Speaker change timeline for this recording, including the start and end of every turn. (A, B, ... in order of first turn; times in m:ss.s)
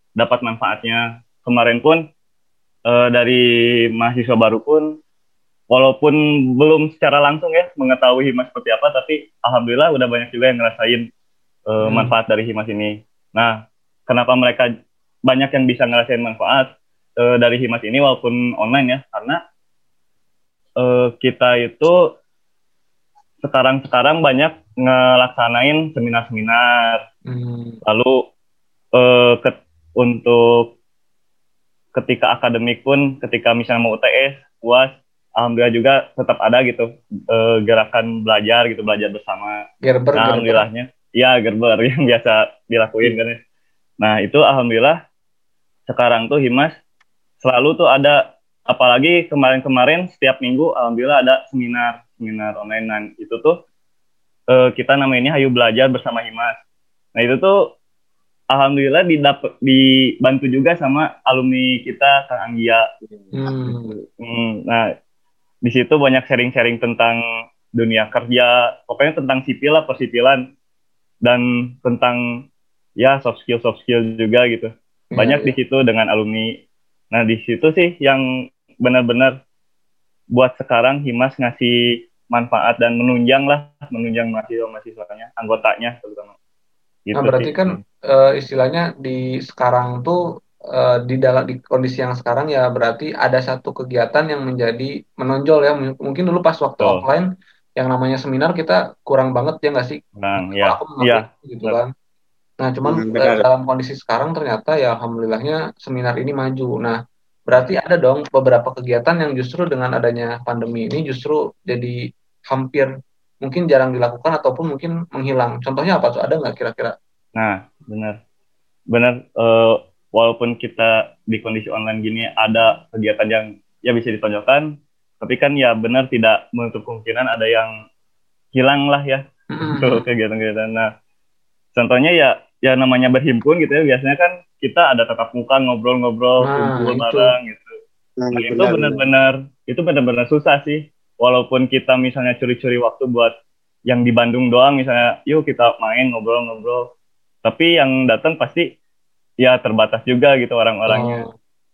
0:00.2-0:02.0 A
0:02.9-0:03.4 A
0:04.0-0:04.9 A
0:05.7-0:11.1 A
0:11.7-0:13.5 A
0:11.8-0:12.1 B
0:14.1-0:14.7 A
0:15.3-0:19.4 A
0:20.8-0:21.9 A
0:23.4-0:27.0 A
0:27.3-0:27.8 B
0:27.8-0:28.2 A
0:28.9-0:30.7 A
0:31.9-0:39.6 A
0:39.8-0:40.6 B
0:40.1-0:43.4 A
0:44.0-0:45.0 A
0:45.9-0:46.7 A
0:47.4-0:53.6 A
0:54.5-0:56.6 A
0:57.1-0:57.6 A
0:58.5-1:02.8 A
1:03.2-1:03.7 C
1:03.3-1:04.0 B
1:04.2-1:04.8 A
1:05.6-1:07.2 A
1:07.8-1:10.4 A
1:11.2-1:12.4 A
1:13.0-1:16.6 A
1:15.1-1:15.6 B
1:17.1-1:18.2 A
1:18.8-1:19.3 A
1:20.3-1:26.3 A
1:27.1-1:27.8 A
1:27.2-1:30.2 B
1:30.7-1:37.2 B
1:36.8-1:37.0 A
1:37.8-1:41.9 B
1:40.2-1:41.8 A
1:42.6-1:51.9 B
1:42.9-1:43.4 C
1:52.5-1:52.9 B
1:53.4-1:56.9 B
1:57.4-1:58.2 A
1:58.9-2:04.7 A
2:05.2-2:07.7 A
2:08.5-2:10.9 A
2:09.5-2:10.0 B
2:11.7-2:17.7 A
2:16.4-2:17.3 B
2:18.2-2:19.0 C
2:18.3-2:23.3 A
2:23.9-2:26.9 A
2:27.4-2:28.7 A
2:29.4-2:31.2 A
2:30.9-2:31.3 B